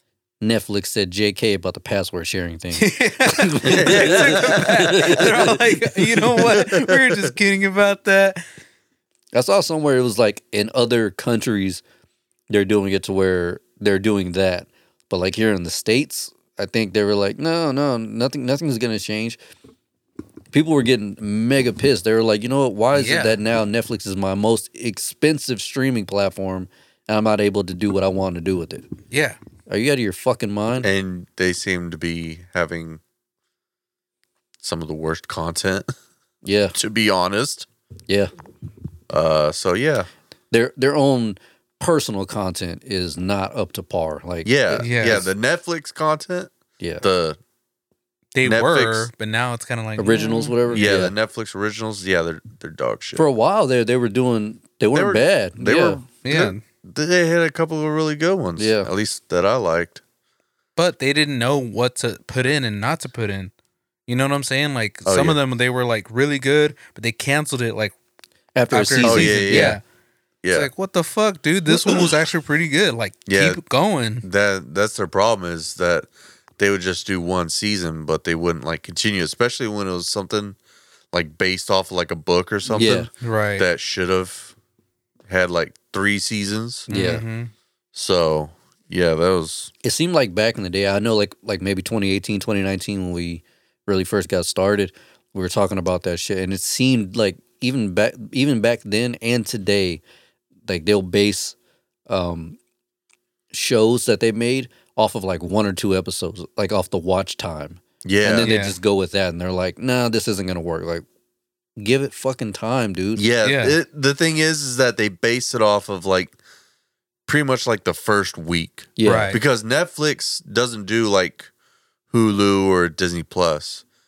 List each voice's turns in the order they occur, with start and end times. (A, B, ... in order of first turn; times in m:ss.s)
0:00.4-0:06.6 A
0:02.8-0:08.4 B
0:03.6-0:05.2 C
0:06.4-0:07.2 C
0:09.3-0:11.8 A
0:12.5-0:19.4 A
0:20.5-0:28.9 A
0:22.9-0:23.4 B
0:29.1-0:29.4 B
0:29.7-0:30.9 A
0:30.8-0:33.0 C
0:34.6-0:35.9 C
0:36.4-0:36.8 A
0:36.8-0:37.7 C
0:39.1-0:40.1 C
0:40.5-0:45.2 A
0:44.4-0:47.4 C
0:44.8-0:45.3 B
0:46.8-0:47.0 A
0:48.4-0:50.8 B
0:48.4-0:49.1 C
0:50.0-0:51.1 A
0:50.7-0:53.3 C
0:53.2-0:56.0 A
0:54.9-1:00.0 C
0:56.2-0:56.6 B
0:58.6-0:58.9 A
1:00.8-1:03.5 B
1:04.1-1:07.9 B
1:05.0-1:05.4 C
1:08.6-1:09.8 A
1:08.7-1:09.8 B
1:09.0-1:09.8 C
1:10.4-1:10.7 C
1:10.5-1:14.2 B
1:13.3-1:13.6 C
1:14.2-1:20.6 C
1:21.1-1:24.6 C
1:22.7-1:23.1 A
1:23.2-1:23.7 B
1:25.3-1:26.9 C
1:26.9-1:27.2 A
1:26.9-1:27.5 B
1:27.9-1:29.7 C
1:29.8-1:40.0 A
1:40.6-1:41.6 A
1:42.1-1:42.6 A
1:43.5-1:51.0 A
1:48.0-1:48.5 C
1:48.4-1:48.8 B
1:51.8-1:53.2 A
1:53.2-1:56.4 C
1:53.4-1:53.8 B
1:57.3-2:01.5 C
1:59.0-1:59.4 A
1:59.0-1:59.4 B
2:02.1-2:03.8 C